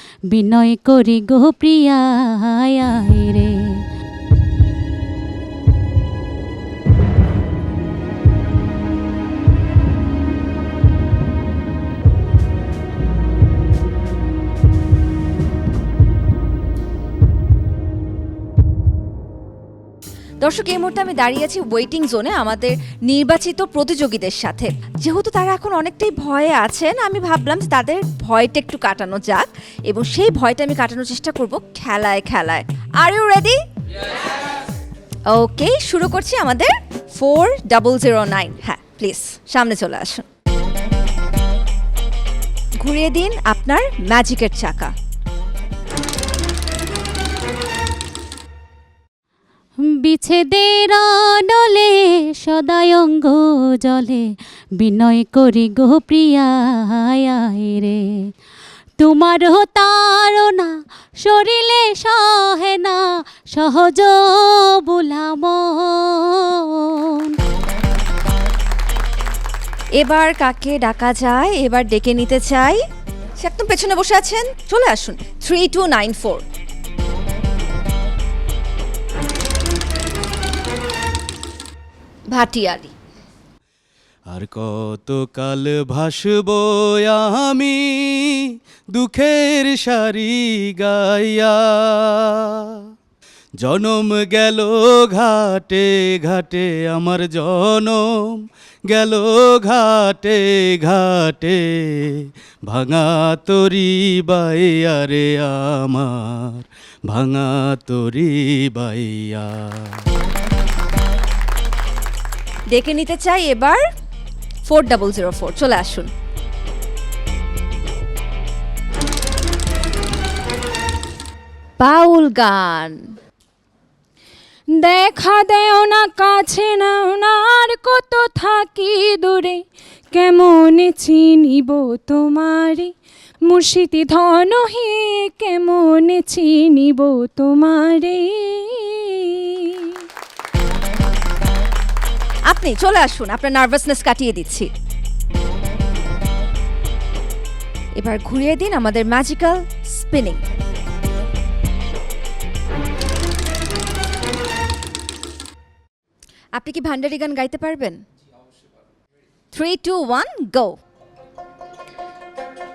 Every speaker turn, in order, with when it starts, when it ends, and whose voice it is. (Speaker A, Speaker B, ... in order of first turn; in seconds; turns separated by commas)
Speaker A: 0.3-3.5, Speaker B: 20.4-33.6, Speaker B: 35.3-40.2, Speaker B: 42.8-44.9, Speaker A: 50.0-58.0, Speaker A: 59.0-63.0, Speaker A: 63.5-67.3, Speaker B: 70.0-72.8, Speaker B: 73.4-76.4, Speaker B: 82.3-82.9, Speaker C: 84.3-92.8, Speaker C: 93.6-109.9, Speaker B: 112.7-113.8, Speaker B: 114.7-116.1, Speaker B: 121.8-123.0, Speaker D: 124.8-129.6, Speaker D: 130.1-132.9, Speaker D: 133.5-140.0, Speaker B: 142.5-144.7, Speaker B: 148.0-150.4, Speaker B: 156.6-158.0, Speaker B: 159.5-160.8